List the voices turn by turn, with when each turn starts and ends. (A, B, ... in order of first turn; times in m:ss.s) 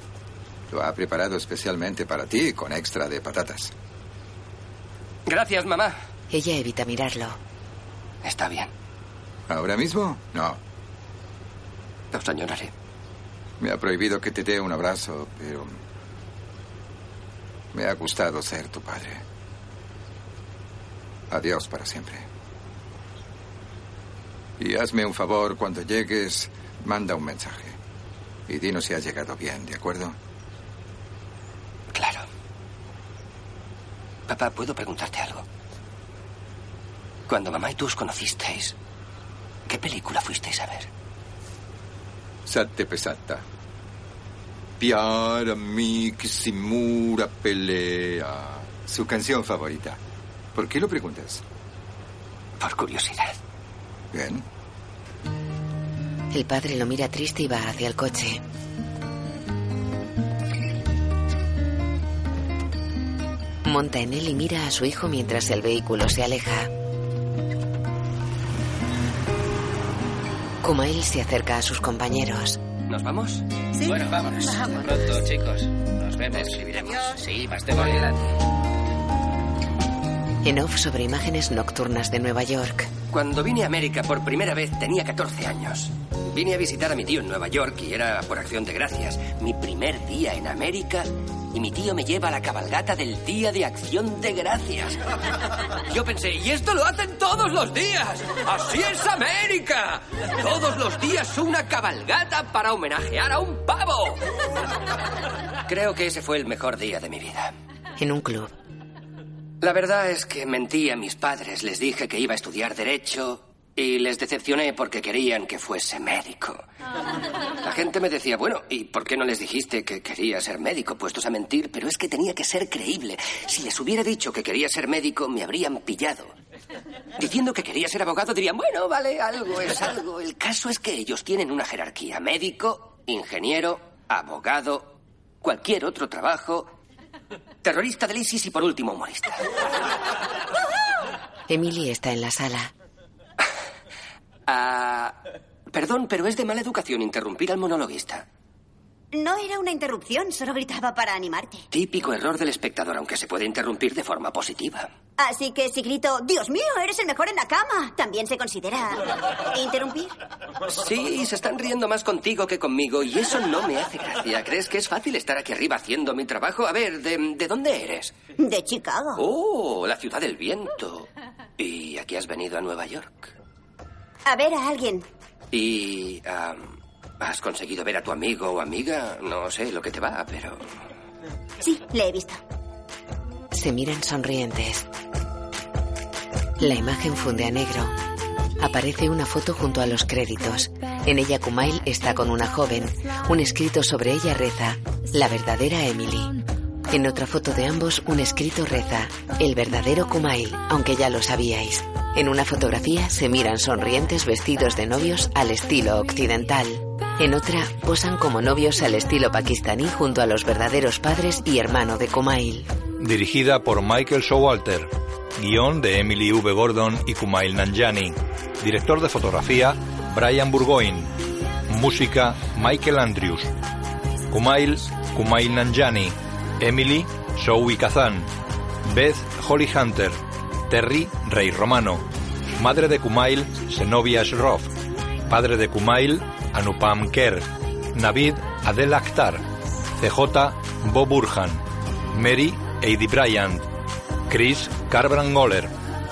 0:00.7-0:03.7 A
0:05.3-0:06.0 B
0:06.3-0:07.4 C
0:08.2-0:08.7 B
0:09.5-0:10.6 A
0:12.1-0:12.7 B
0:13.6-0:15.8 A
0:17.7-0:19.2 A
0:21.3-0:22.2 A
0:24.6-0:27.8 A
0:28.5-0:30.1 A
0:31.9-0:32.2 B
0:34.3-0:35.4 B
0:37.3-0:38.7 B
0:39.7-0:40.9 B
0:42.4-0:43.4 A
0:44.8-0:50.0 A
0:50.5-0:51.4 A
0:52.6-0:53.4 B
0:54.1-0:54.4 A
0:56.3-0:58.4 C
1:03.6-1:06.7 C
1:10.6-1:12.6 C
1:12.9-1:13.4 B
1:13.8-1:18.3 D
1:16.3-1:17.2 B
1:20.4-1:22.9 C
1:23.1-1:35.0 B
1:35.7-1:44.2 B
1:45.6-1:47.5 B
1:48.0-1:48.5 C
1:49.6-1:56.6 B
1:57.6-2:06.3 B
2:07.2-2:16.7 B
2:17.6-2:19.5 B
2:21.5-2:22.7 C
2:24.5-2:25.2 B
2:25.7-2:28.2 B
2:29.1-2:31.6 E
2:31.7-2:34.9 B
2:35.2-2:40.1 E
2:40.7-2:48.1 B
2:48.4-2:49.2 E
2:49.2-2:51.1 B
2:51.6-2:53.3 B
2:54.2-2:55.0 E
2:55.5-3:00.6 B
3:01.6-3:02.4 E
3:03.5-3:04.9 C
3:06.6-3:08.0 C
3:08.6-3:16.4 C
3:16.9-3:32.7 C
3:33.0-3:41.1 F
3:41.7-3:43.5 F
3:44.3-3:48.3 F
3:48.8-3:52.0 F
3:52.6-3:54.7 F
3:55.3-3:59.4 F
4:00.0-4:03.7 F
4:04.3-4:05.7 F